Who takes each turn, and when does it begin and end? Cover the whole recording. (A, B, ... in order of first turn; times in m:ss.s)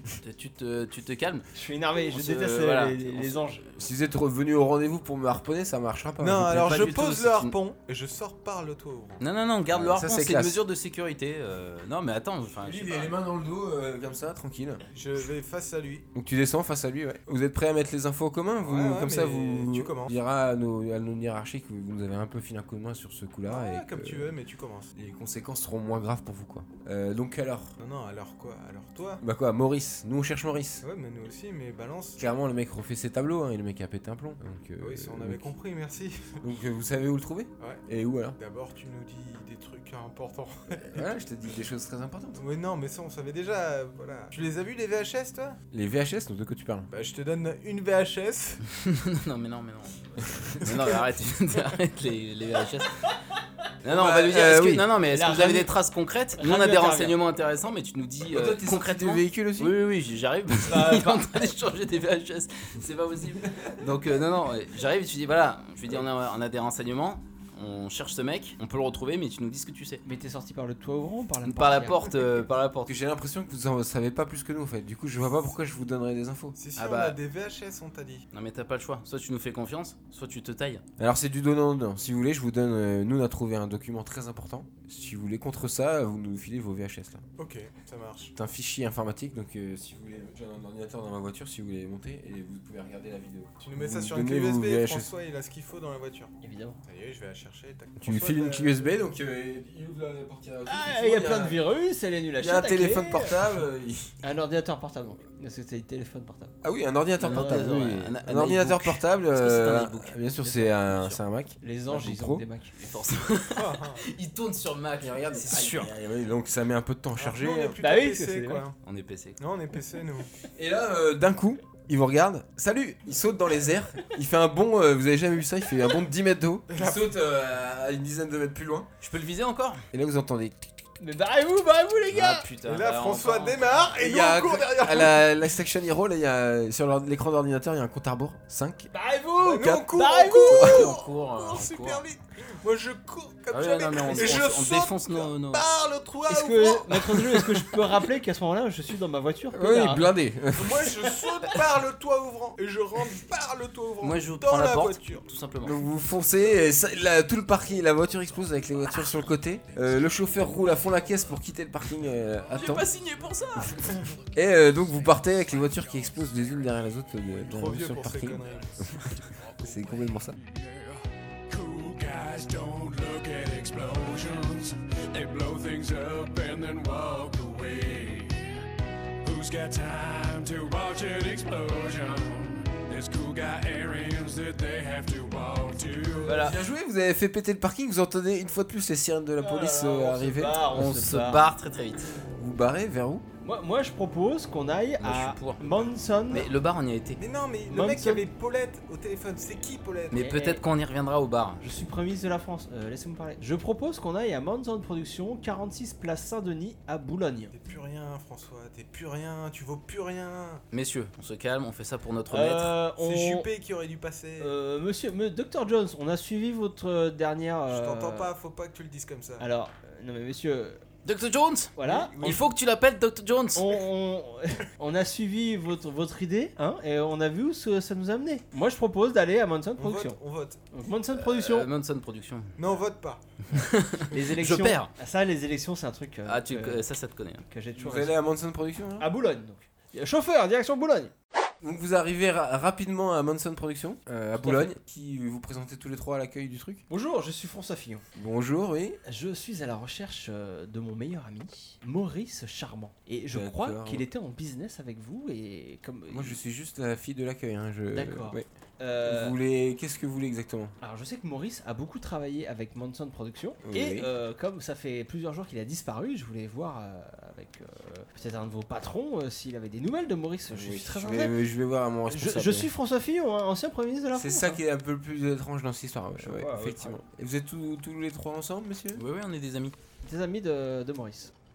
0:00.2-0:01.5 A
0:01.5-0:03.6 B
0:02.1-0:03.8 A
0:03.8-0:06.8 C
0:06.2-0:09.2 D
0:06.5-0:07.6 A
0:09.2-0:13.2 A
0:09.7-0:10.6 C
0:12.6-0:14.8 C
0:14.9-0:16.1 D
0:16.2-0:24.3 C
0:18.6-0:20.2 D
0:23.5-0:24.9 D
0:24.9-0:27.8 C
0:27.8-0:29.2 D
0:29.2-0:30.8 C
0:30.8-0:32.2 D
0:32.2-0:35.5 C
0:34.8-0:36.4 D
0:36.4-0:38.4 C
0:38.4-0:41.1 D
0:40.7-0:42.4 C
0:42.4-0:45.6 D
0:45.7-0:46.9 C
0:46.9-0:48.6 D
0:48.7-0:52.9 A
0:50.6-0:51.0 D
0:53.8-0:54.9 C
0:53.8-1:10.0 A
0:55.1-0:55.7 B
0:56.4-0:57.2 B
0:58.3-0:59.8 C
1:00.7-1:01.5 B
1:10.0-1:12.0 B
1:11.4-1:13.0 A
1:12.8-1:16.6 C
1:16.6-1:18.3 D
1:16.8-1:17.2 A
1:18.3-1:20.8 A
1:21.0-1:27.2 C
1:27.4-1:28.3 D
1:28.4-1:35.1 C
1:33.6-1:39.0 D
1:36.4-1:36.8 B
1:38.0-1:41.6 C
1:40.7-1:43.4 B
1:42.4-1:44.1 C
1:44.2-1:46.5 B
1:46.6-1:52.5 C
1:47.2-1:51.2 A
1:51.6-1:52.7 B
1:52.8-1:55.9 A
1:53.5-1:54.0 D
1:55.0-1:57.8 C
1:57.2-1:58.8 D
1:57.8-1:58.6 B
1:58.8-1:59.4 A
1:59.4-2:00.3 D
2:00.6-2:08.9 C
2:06.7-2:07.1 D
2:09.0-2:09.8 A
2:09.9-2:10.8 C
2:11.0-2:12.5 B
2:12.1-2:14.0 A
2:12.6-2:15.3 D
2:14.0-2:18.9 C
2:18.9-2:20.8 B
2:19.4-2:27.6 D
2:19.5-2:19.9 C
2:20.5-2:20.9 C
2:20.5-2:22.0 A
2:23.5-2:25.7 A
2:26.3-2:30.1 B
2:29.5-2:31.0 C
2:30.6-2:35.3 D
2:34.0-2:35.8 A
2:35.6-2:42.9 C
2:42.5-2:43.9 A
2:44.3-2:50.4 C
2:47.5-2:48.8 D
2:48.9-2:58.5 E
2:59.2-3:06.4 E
3:06.2-3:06.6 A
3:06.3-3:10.7 C
3:09.4-3:11.5 B
3:10.7-3:12.1 A
3:12.4-3:13.2 C
3:13.4-3:16.5 B
3:15.0-3:17.2 A
3:17.2-3:20.2 D
3:17.7-3:18.3 B
3:20.1-3:21.6 A
3:20.1-3:20.6 B
3:21.6-3:27.5 B
3:27.5-3:30.6 D
3:30.7-3:32.8 A
3:32.3-3:33.5 B
3:33.0-3:34.6 D
3:34.4-3:38.3 B
3:37.7-3:39.5 D
3:39.4-3:40.8 B
3:41.0-3:43.7 A
3:41.8-3:42.3 B
3:41.9-3:42.4 C
3:43.5-3:50.2 B
3:49.8-3:50.6 D
3:50.7-3:51.7 B
3:51.1-3:52.8 A
3:52.6-3:53.2 D
3:53.5-3:54.9 A
3:54.1-3:56.8 B
3:56.3-3:57.4 A
3:57.5-3:58.2 B
3:57.8-3:59.1 C
3:59.0-4:01.1 B
4:01.6-4:06.8 C
4:04.4-4:04.7 B
4:06.9-4:08.0 B
4:08.2-4:09.0 C
4:09.1-4:16.4 B
4:13.3-4:14.1 C
4:16.1-4:18.5 C
4:17.9-4:19.4 B
4:19.0-4:20.8 C
4:20.8-4:31.4 B
4:23.6-4:24.1 C
4:30.5-4:32.7 C
4:32.1-4:34.6 B
4:34.1-4:39.0 C
4:36.2-4:37.0 B
4:39.0-4:39.8 A
4:40.0-4:41.3 B